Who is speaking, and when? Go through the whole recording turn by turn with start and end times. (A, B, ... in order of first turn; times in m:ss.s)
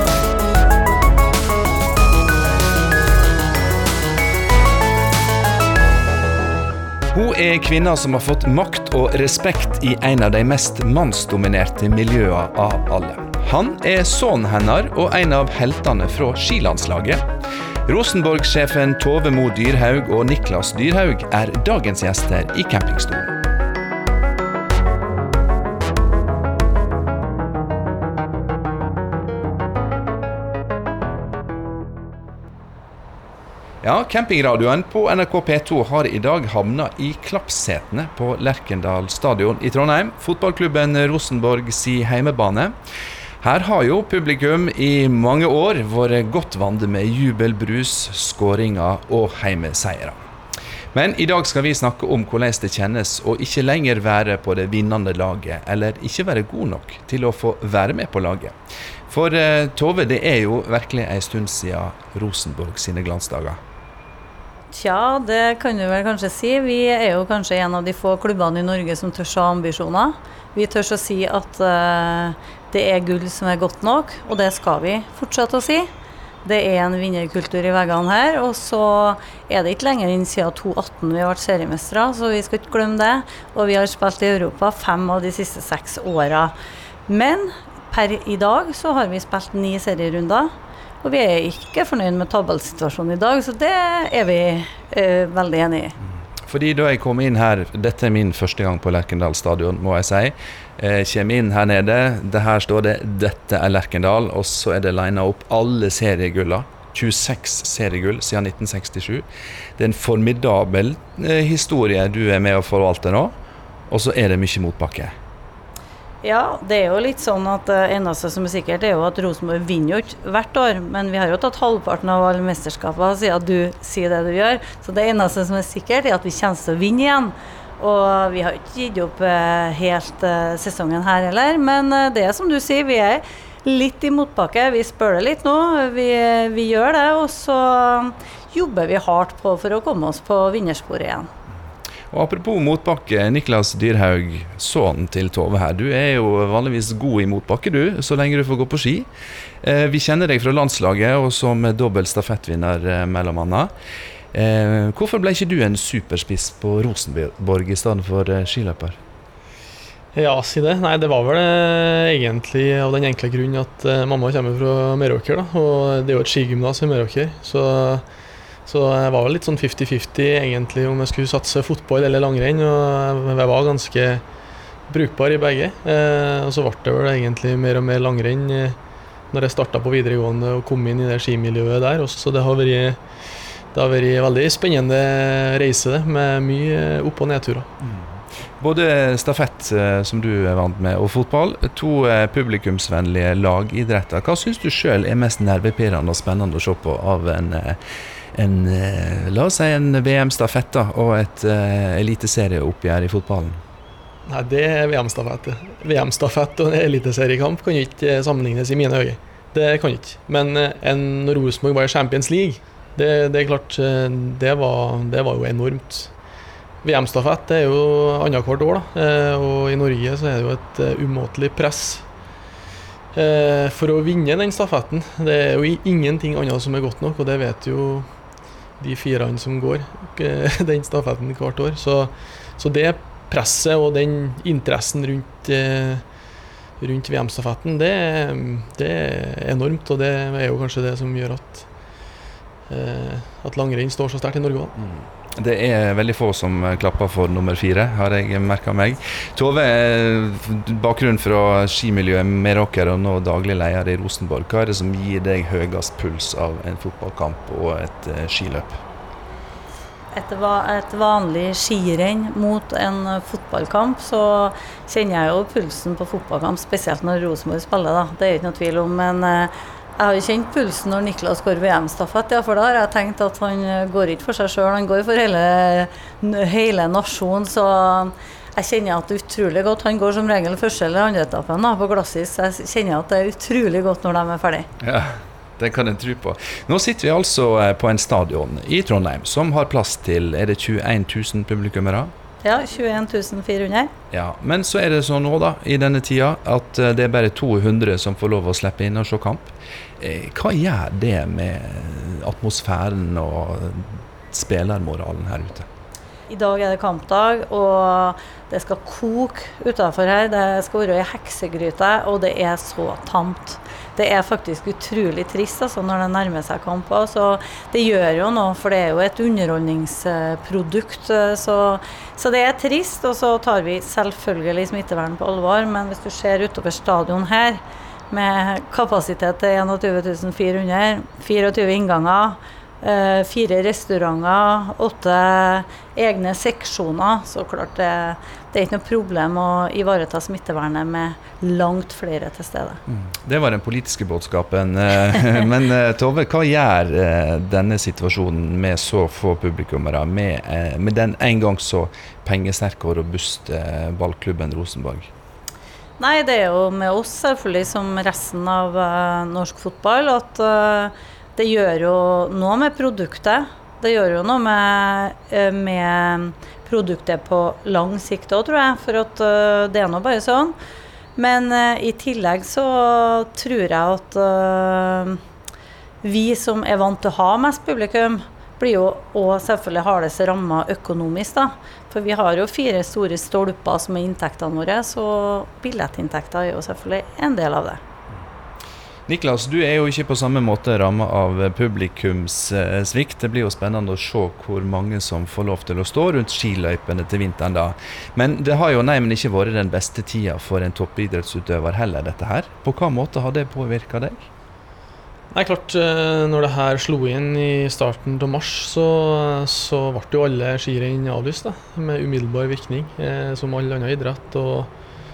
0:07.1-0:17.2 A
0:17.8-0:23.4 A
0:33.8-0:42.7 A
0:43.4-0:50.2 A
0:50.9-0:58.5 A
0:59.1-1:03.6 A
1:04.7-1:15.9 B
1:16.4-1:26.5 B
1:27.1-1:30.5 B
1:31.0-1:36.0 B
1:36.4-1:49.2 A
1:49.8-1:53.3 A
1:53.9-1:55.1 A
1:56.2-2:21.3 B
2:22.1-2:29.1 A
2:29.6-2:33.7 A
2:34.3-2:39.0 A
2:40.1-2:48.0 C
2:48.6-2:54.2 C
2:54.9-2:58.8 C
2:59.3-3:03.0 C
3:03.7-3:07.7 C
3:07.8-3:17.8 A
3:18.3-3:23.6 A
3:24.3-3:36.1 C
3:36.8-3:42.0 C
3:43.1-3:48.0 C
3:48.8-3:56.0 C
3:56.8-4:01.7 C
4:02.7-4:04.7 C
4:04.8-4:18.8 A
4:20.1-4:44.7 B
4:44.8-4:52.1 A
4:52.4-4:53.9 B
4:54.1-5:05.7 A
5:06.3-5:42.8 B
5:42.9-5:55.1 A
5:56.0-6:10.6 B
6:11.2-6:15.2 B
6:16.0-6:27.8 B
6:29.1-6:44.3 A
6:45.3-6:54.7 C